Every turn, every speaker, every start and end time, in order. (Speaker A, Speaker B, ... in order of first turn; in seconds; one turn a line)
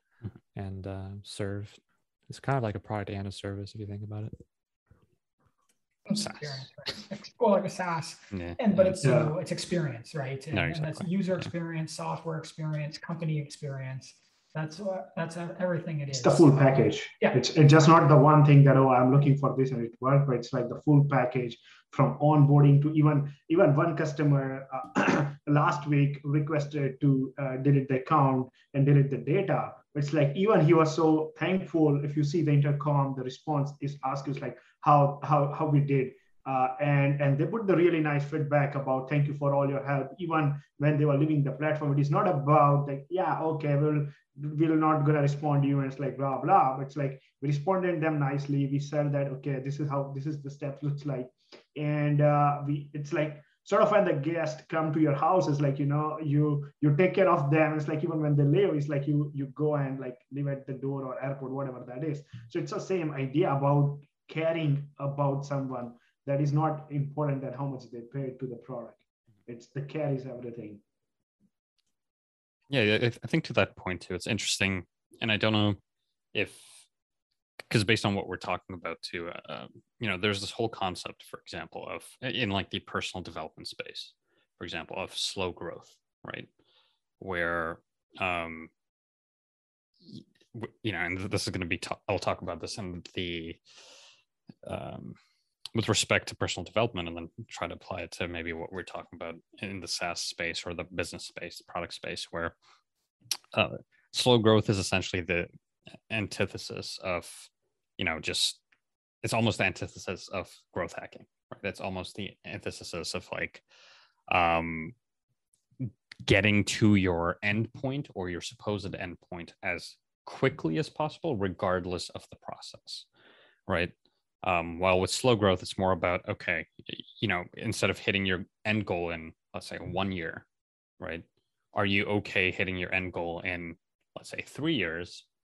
Speaker A: 0.5-4.4
Speaker B: 6.1-17.4
Speaker C: 8.3-9.0
Speaker D: 9.0-9.3
Speaker C: 10.5-11.5
Speaker D: 16.1-70.8
Speaker C: 72.7-75.8
Speaker C: 76.3-76.8
Speaker C: 77.7-86.5
Speaker C: 87.2-88.7
Speaker C: 90.0-93.6
Speaker C: 94.6-95.2
Speaker C: 95.7-102.5
Speaker C: 103.5-105.5
Speaker C: 106.1-108.6
Speaker C: 109.2-113.6
Speaker C: 114.3-114.9
Speaker C: 115.8-123.1
Speaker C: 123.7-130.4
Speaker C: 131.0-135.2